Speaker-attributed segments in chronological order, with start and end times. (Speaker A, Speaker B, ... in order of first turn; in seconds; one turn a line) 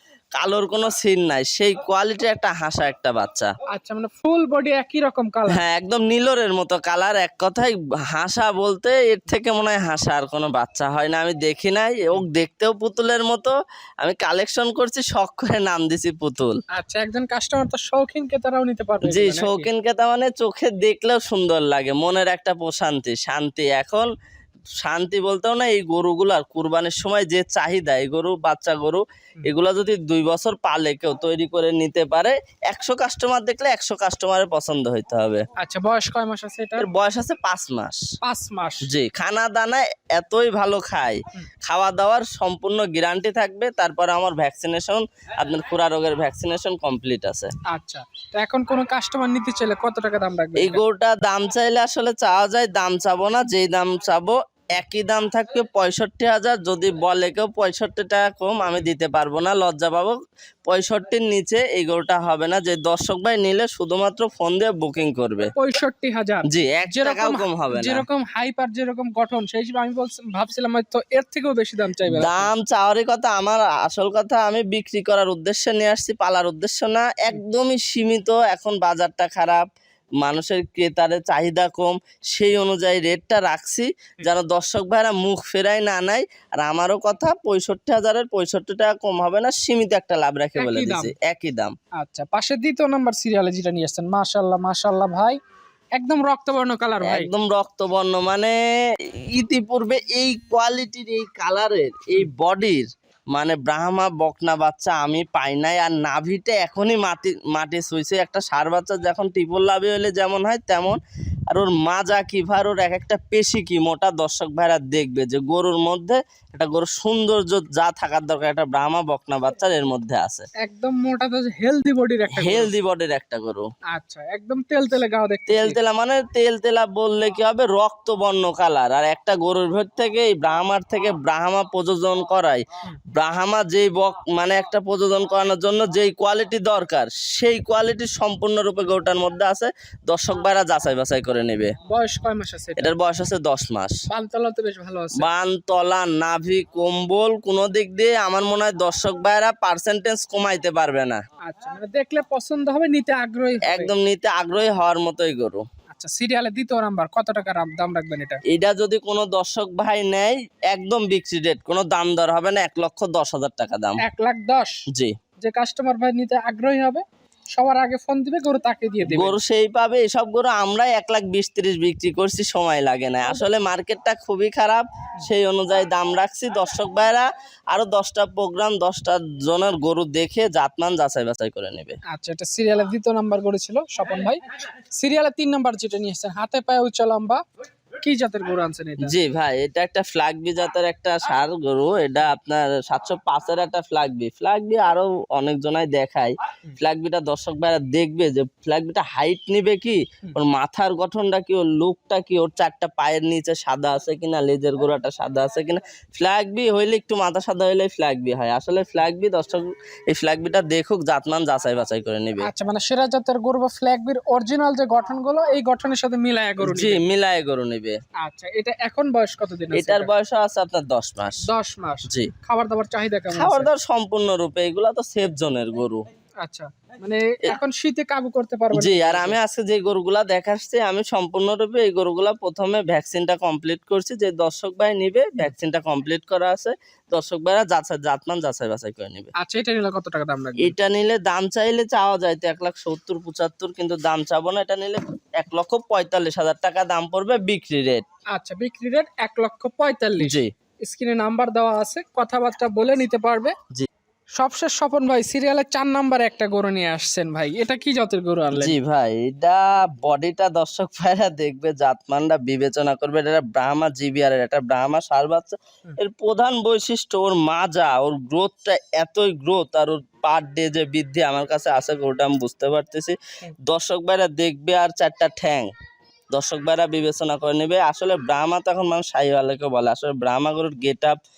Speaker A: 0.4-3.5
Speaker B: 3.7-5.6
Speaker A: 5.5-13.5
Speaker A: 14.0-16.6
Speaker B: 16.7-19.7
Speaker A: 19.0-24.1
Speaker A: 24.8-35.4
Speaker B: 35.6-36.9
Speaker A: 36.8-38.0
Speaker B: 38.2-38.9
Speaker A: 38.8-47.5
Speaker B: 47.7-50.8
Speaker A: 50.6-60.1
Speaker A: 60.7-65.5
Speaker B: 65.5-72.5
Speaker A: 66.5-68.0
Speaker A: 72.1-79.6
Speaker A: 80.2-91.7
Speaker B: 90.6-91.1
Speaker B: 92.0-95.4
Speaker B: 96.0-97.3
Speaker A: 97.0-98.5
Speaker A: 99.3-111.0
Speaker A: 111.5-120.5
Speaker B: 120.6-122.7
Speaker A: 122.3-123.7
Speaker B: 123.9-125.8
Speaker A: 125.5-132.6
Speaker A: 133.1-141.7
Speaker B: 141.9-142.9
Speaker A: 142.8-143.9
Speaker B: 144.1-145.3
Speaker A: 145.2-151.2
Speaker B: 151.4-153.9
Speaker A: 153.6-155.6
Speaker B: 155.9-158.4
Speaker A: 158.5-164.0
Speaker B: 164.0-164.8
Speaker B: 165.4-169.4
Speaker A: 169.1-182.0
Speaker B: 182.1-187.4
Speaker B: 188.0-189.1
Speaker A: 189.0-212.5
Speaker B: 212.4-217.0
Speaker A: 216.6-218.0
Speaker B: 218.2-220.1
Speaker A: 219.7-221.4
Speaker B: 221.5-223.7
Speaker A: 223.3-226.0
Speaker B: 226.4-229.4
Speaker A: 228.7-239.3
Speaker B: 239.4-240.7
Speaker A: 240.6-248.0
Speaker B: 248.3-253.5
Speaker A: 250.2-250.5
Speaker B: 254.4-258.8
Speaker A: 258.6-275.7
Speaker A: 276.3-281.1